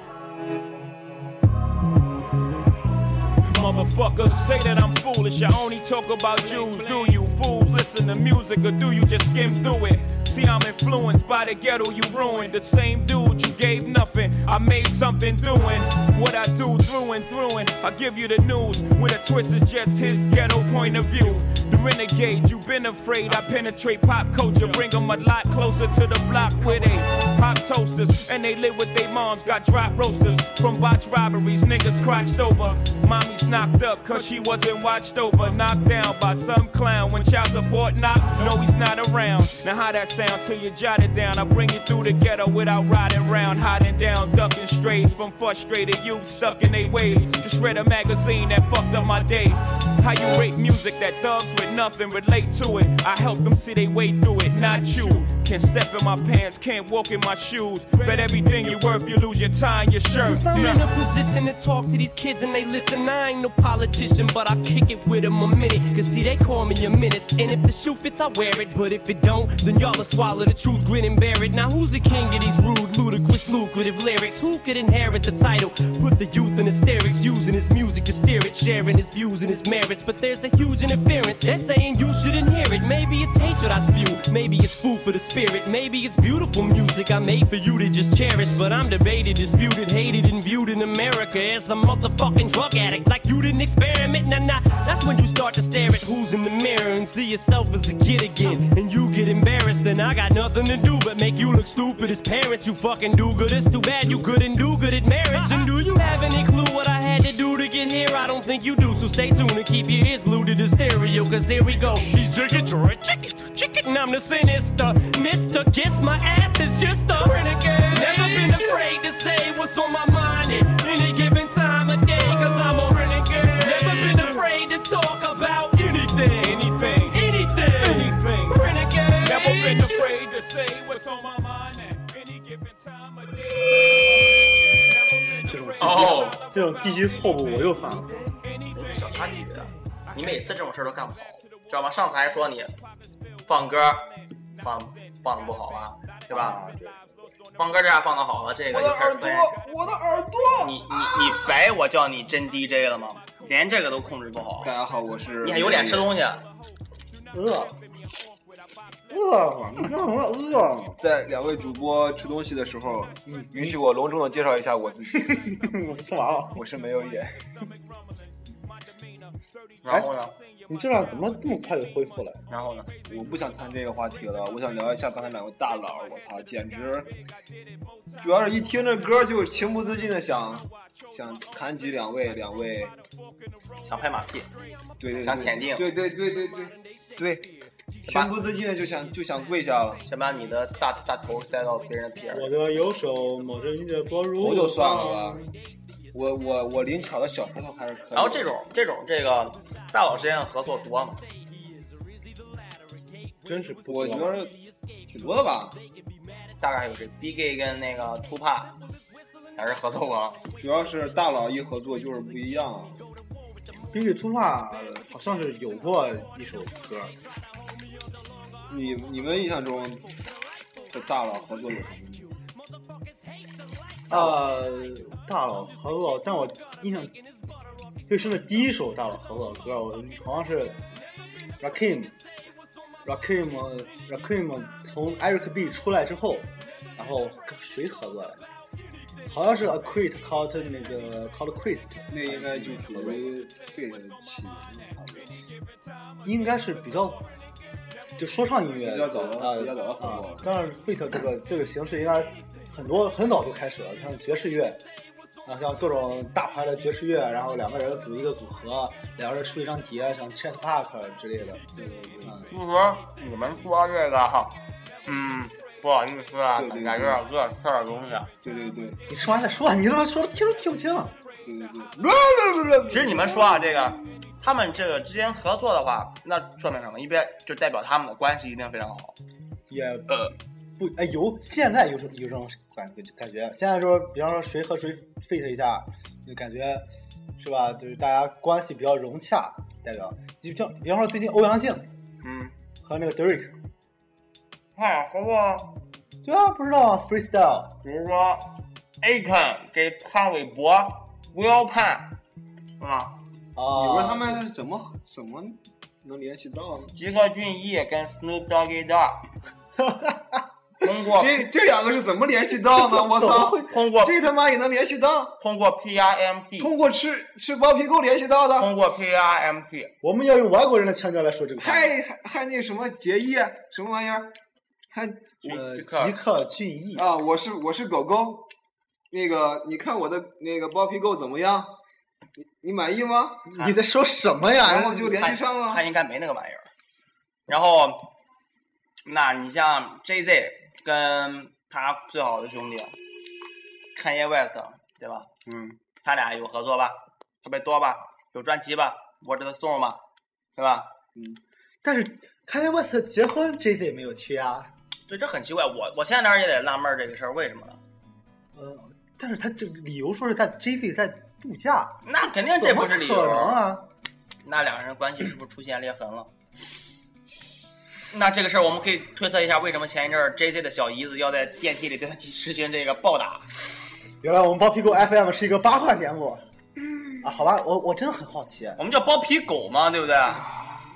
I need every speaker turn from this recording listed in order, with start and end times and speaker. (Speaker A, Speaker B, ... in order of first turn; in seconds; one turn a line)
Speaker A: 3.4-60.9
Speaker B: 54.6-55.2
Speaker B: 60.1-130.1
Speaker A: 117.9-118.6
Speaker A: 123.0-124.4
Speaker A: 126.4-128.6
Speaker A: 129.2-133.4
Speaker C: 135.4-138.3
Speaker D: 135.8-136.4
Speaker D: 138.7-142.8
Speaker D: 143.5-144.1
Speaker D: 144.6-146.6
Speaker C: 146.3-147.2
Speaker D: 147.6-149.6
Speaker E: 148.7-151.4
Speaker D: 150.6-154.7
Speaker E: 154.6-156.2
Speaker D: 155.4-156.4
Speaker C: 157.3-157.8
Speaker C: 159.1-161.0
Speaker E: 161.0-165.5
Speaker C: 163.2-163.8
Speaker C: 165.2-166.6
Speaker E: 166.6-167.4
Speaker D: 169.8-170.4
Speaker C: 170.7-172.4
Speaker D: 172.5-172.9
Speaker E: 173.1-177.1
Speaker E: 178.2-182.9
Speaker D: 183.8-184.5
Speaker E: 185.0-187.5
Speaker D: 185.2-185.9
Speaker E: 188.0-190.0
Speaker D: 190.1-192.5
Speaker C: 192.3-195.5
Speaker E: 194.4-195.4
Speaker E: 196.1-198.5
Speaker D: 198.1-201.2
Speaker C: 203.4-204.5
Speaker E: 203.9-204.6
Speaker E: 205.1-205.8
Speaker D: 206.6-208.8
Speaker D: 209.6-210.4
Speaker E: 210.6-213.0
Speaker C: 213.9-217.1
Speaker E: 218.7-220.1
Speaker E: 220.9-222.3
Speaker C: 224.1-227.2
Speaker C: 228.1-230.8
Speaker C: 231.6-232.2
Speaker C: 233.0-238.5
Speaker C: 239.3-243.3
Speaker E: 242.1-245.3
Speaker C: 246.2-247.3
Speaker C: 248.2-254.8
Speaker E: 248.8-250.4
Speaker C: 255.4-261.6
Speaker E: 261.8-262.4
Speaker C: 262.2-262.5
Speaker D: 262.5-268.3
Speaker E: 266.6-267.2
Speaker E: 268.4-269.0
Speaker C: 269.1-271.1
Speaker E: 271.4-273.9
Speaker D: 272.9-279.2
Speaker C: 279.7-280.1
Speaker D: 280.1-280.3
Speaker C: 280.8-291.9
Speaker D: 292.2-292.5
Speaker C: 292.8-293.6
Speaker D: 294.8-295.8
Speaker C: 296.2-297.8
Speaker D: 297.8-302.2
Speaker D: 302.8-303.1
Speaker C: 303.6-304.4
Speaker E: 303.7-306.9
Speaker D: 306.9-309.2
Speaker C: 309.8-310.4
Speaker D: 310.8-311.4
Speaker E: 311.1-315.4
Speaker C: 312.7-313.7
Speaker D: 313.5-314.2
Speaker D: 315.4-316.7
Speaker E: 316.6-318.7
Speaker D: 318.6-319.9
Speaker C: 320.0-321.9
Speaker E: 321.6-324.3
Speaker E: 324.9-325.6
Speaker D: 325.4-326.2
Speaker C: 325.5-327.1
Speaker E: 326.9-328.5
Speaker E: 329.1-331.8
Speaker E: 332.4-333.5
Speaker C: 333.5-335.2
Speaker D: 333.5-333.8
Speaker E: 334.6-335.8
Speaker D: 335.1-336.7
Speaker D: 337.5-338.1
Speaker D: 339.1-342.9
Speaker D: 343.9-345.3
Speaker C: 345.5-345.8
Speaker D: 346.0-350.0
Speaker D: 350.6-350.9
Speaker C: 351.8-354.7
Speaker D: 355.1-357.8
Speaker C: 358.5-362.0
Speaker D: 362.1-363.6
Speaker C: 362.6-363.9
Speaker D: 364.4-366.3
Speaker D: 368.1-373.4
Speaker C: 374.2-376.4
Speaker C: 377.2-378.8
Speaker D: 378.8-380.4